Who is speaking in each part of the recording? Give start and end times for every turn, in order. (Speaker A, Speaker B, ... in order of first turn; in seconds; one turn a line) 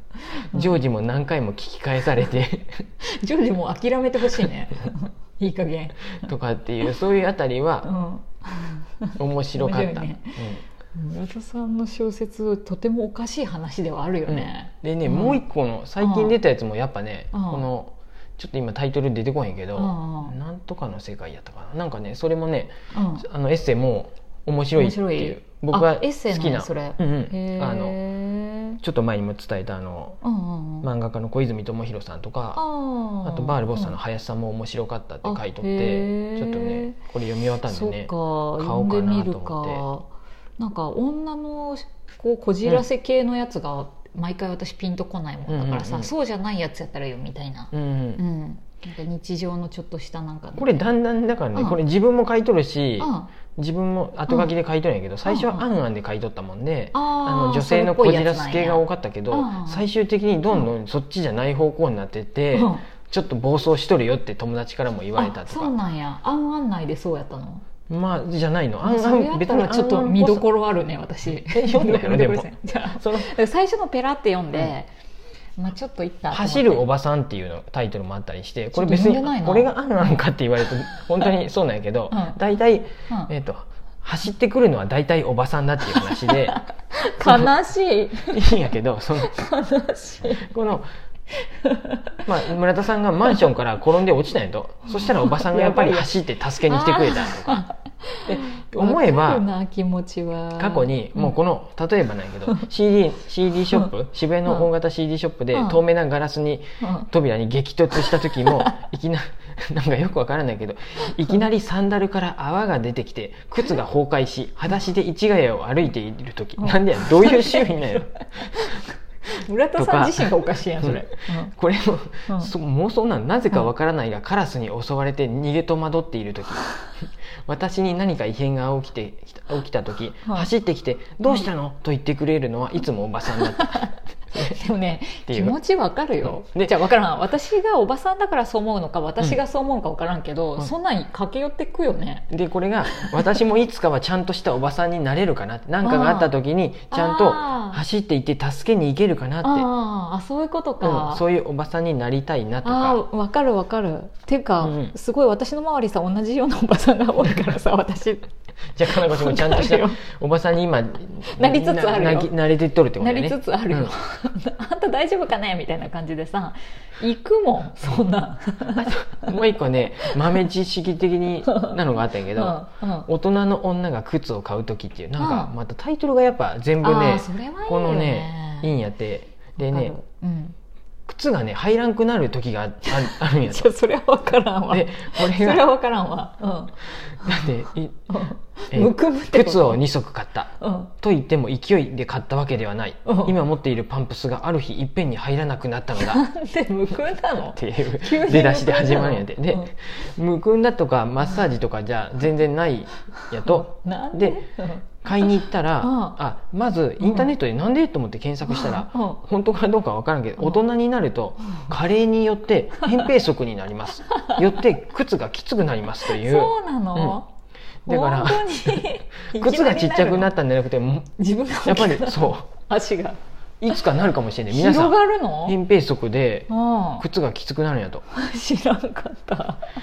Speaker A: 0.5-2.9
Speaker B: 3.0-6.2
Speaker A: 6.2-7.9
Speaker B: 7.8-10.4
Speaker A: 9.2-10.6
Speaker B: 10.9-15.4
Speaker A: 14.3-28.0
Speaker B: 16.0-16.4
Speaker B: 17.3-17.6
Speaker B: 19.8-20.4
Speaker B: 22.9-23.2
Speaker B: 24.8-28.8
Speaker A: 28.8-30.2
Speaker B: 30.2-30.9
Speaker A: 30.8-32.6
Speaker B: 32.6-34.0
Speaker A: 33.2-39.8
Speaker B: 35.2-37.0
Speaker B: 37.7-50.9
Speaker A: 45.5-46.1
Speaker A: 47.7-48.2
Speaker A: 50.6-65.7
Speaker B: 53.0-53.3
Speaker B: 55.2-55.7
Speaker B: 56.9-59.9
Speaker B: 62.5-62.8
Speaker B: 65.2-67.7
Speaker A: 67.9-70.5
Speaker B: 68.8-74.9
Speaker A: 71.5-73.3
Speaker B: 75.6-76.9
Speaker A: 76.3-86.6
Speaker B: 78.7-80.3
Speaker B: 82.1-82.4
Speaker B: 85.9-90.5
Speaker A: 87.2-87.5
Speaker A: 88.3-89.4
Speaker A: 90.3-90.9
Speaker B: 91.4-92.2
Speaker A: 92.2-97.7
Speaker B: 95.0-101.3
Speaker A: 98.2-99.5
Speaker A: 100.6-118.8
Speaker B: 105.5-105.8
Speaker B: 106.8-107.1
Speaker B: 108.1-108.7
Speaker B: 116.6-121.5
Speaker A: 119.8-126.7
Speaker A: 127.5-134.6
Speaker B: 133.5-142.3
Speaker A: 135.3-135.6
Speaker A: 136.5-136.8
Speaker A: 142.3-149.7
Speaker B: 142.9-143.3
Speaker B: 145.8-146.3
Speaker B: 146.9-147.8
Speaker B: 149.4-151.2
Speaker A: 150.8-153.0
Speaker B: 152.6-158.3
Speaker A: 154.6-154.9
Speaker A: 158.8-163.9
Speaker B: 158.9-160.0
Speaker B: 161.3-162.3
Speaker B: 163.0-169.1
Speaker A: 168.7-180.0
Speaker B: 171.5-171.8
Speaker B: 172.3-173.1
Speaker B: 175.2-175.5
Speaker B: 176.8-178.7
Speaker B: 179.6-180.6
Speaker A: 181.1-183.7
Speaker B: 182.9-189.8
Speaker A: 184.7-185.7
Speaker A: 187.2-188.1
Speaker A: 188.7-196.2
Speaker B: 190.6-190.9
Speaker B: 193.1-193.4
Speaker B: 196.0-199.7
Speaker A: 197.4-204.4
Speaker B: 203.1-206.2
Speaker A: 205.0-217.2
Speaker B: 207.0-207.3
Speaker B: 208.5-209.2
Speaker B: 212.8-213.1
Speaker B: 216.1-217.3
Speaker A: 217.9-222.5
Speaker B: 217.9-220.3
Speaker B: 221.2-223.2
Speaker A: 223.6-228.0
Speaker B: 224.5-225.6
Speaker B: 226.5-227.1
Speaker B: 228.1-229.7